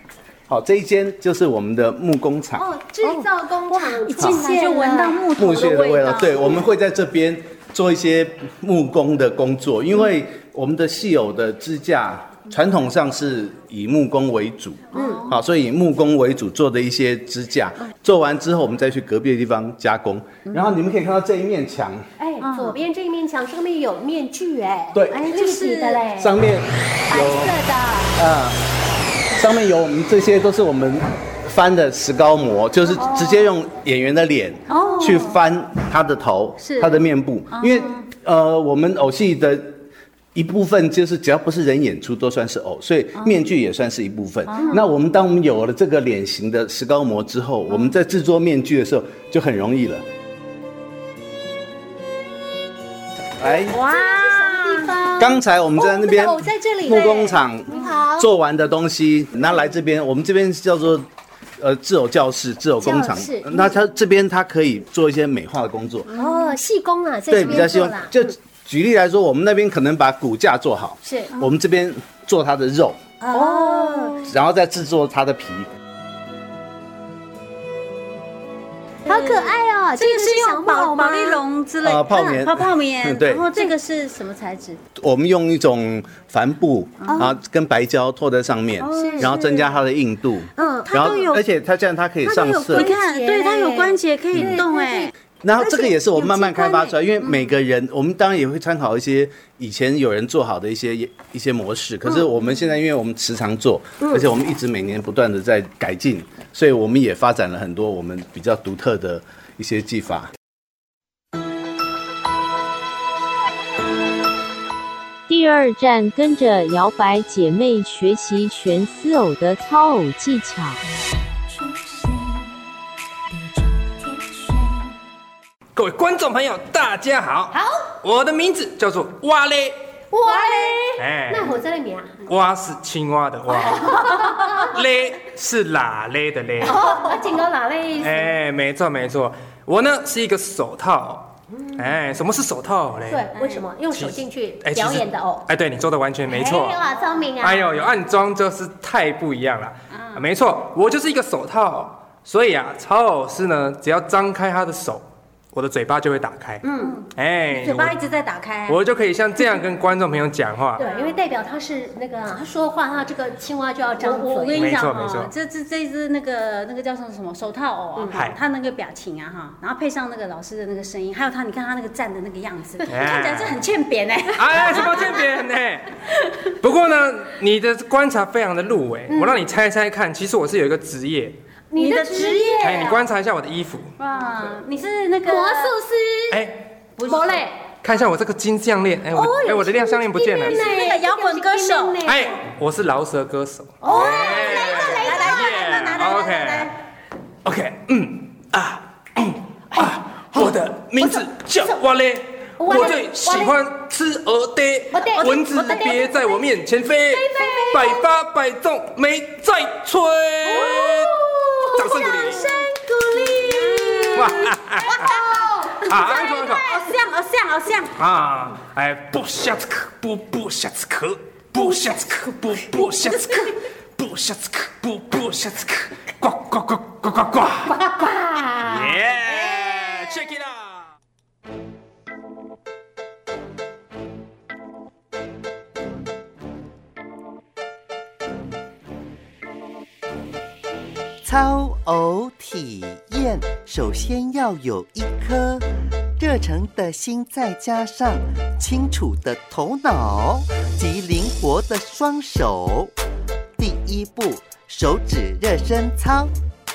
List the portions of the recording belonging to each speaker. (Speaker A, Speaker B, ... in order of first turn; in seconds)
Speaker A: 0.5-2.7, 4.2-4.4, 5.3-22.0, 24.9-25.3, 26.2-27.6, 28.1-28.6, 29.3-39.8, 40.4-50.0, 53.4-53.8, 55.2-61.1, 61.6-66.1, 67.3-73.0, 74.3-75.7, 81.8-83.5, 85.0-92.9, 94.3-94.6, 95.4-110.3
Speaker B: 2.6-5.3, 6.1-6.6, 14.9-15.3, 22.2-26.4, 27.1-28.1, 44.6-44.9, 53.4-58.3, 62.8-63.8, 66.1-68.3, 71.0-71.3, 73.2-74.3, 79.1-81.5, 82.1-82.4, 83.5-83.8, 88.9-89.4, 90.6-91.0, 92.2-96.9, 104.0-104.3, 130.1-132.2, 133.9-134.7, 136.6-138.2, 141.5-141.8, 143.1-145.5, 146.3-147.7, 156.6-157.0, 160.8-164.7, 179.1-179.4, 181.7-183.0, 185.2-186.4, 187.1-187.6, 189.1-192.4, 194.7-195.5, 202.6-203.4, 204.9-205.9, 211.7-212.6, 213.6-213.8, 228.0-228.8
Speaker C: 3.1-6.5, 14.9-15.4, 22.4-22.8, 25.3-26.0, 33.0-33.5, 34.7-35.4, 37.5-38.0, 43.2-43.5, 44.5-44.8, 53.8-54.9, 66.2-66.5, 73.3-74.2, 79.1-84.8, 87.0-87.3, 88.8-89.7, 90.9-91.4, 92.8-95.1, 121.5-122.5, 123.6-124.8, 130.3-130.8, 136.8-137.4, 156.8-158.8, 160.8-161.2, 164.0-175.2, 181.8-183.0, 184.0-185.8, 187.0-187.4, 190.5-192.0, 193.8-196.7, 205.1-206.2, 207.1-208.0, 210.4-217.9
Speaker D: 115.3-120.8
Speaker E: 125.8-129.8, 131.0-131.5, 132.3-136.8, 138.0-143.3, 143.9-146.8, 147.4-156.6, 157.2-158.0, 158.7-160.8, 164.6-165.3, 168.1-168.4, 172.9-173.6, 174.3-181.4, 182.6-183.9, 186.3-186.6, 187.8-190.8, 192.1-196.8, 197.4-212.5, 214.1-216.8, 218.0-228.1, 228.7-230.8
Speaker F: 241.2-252.9, 253.6-256.3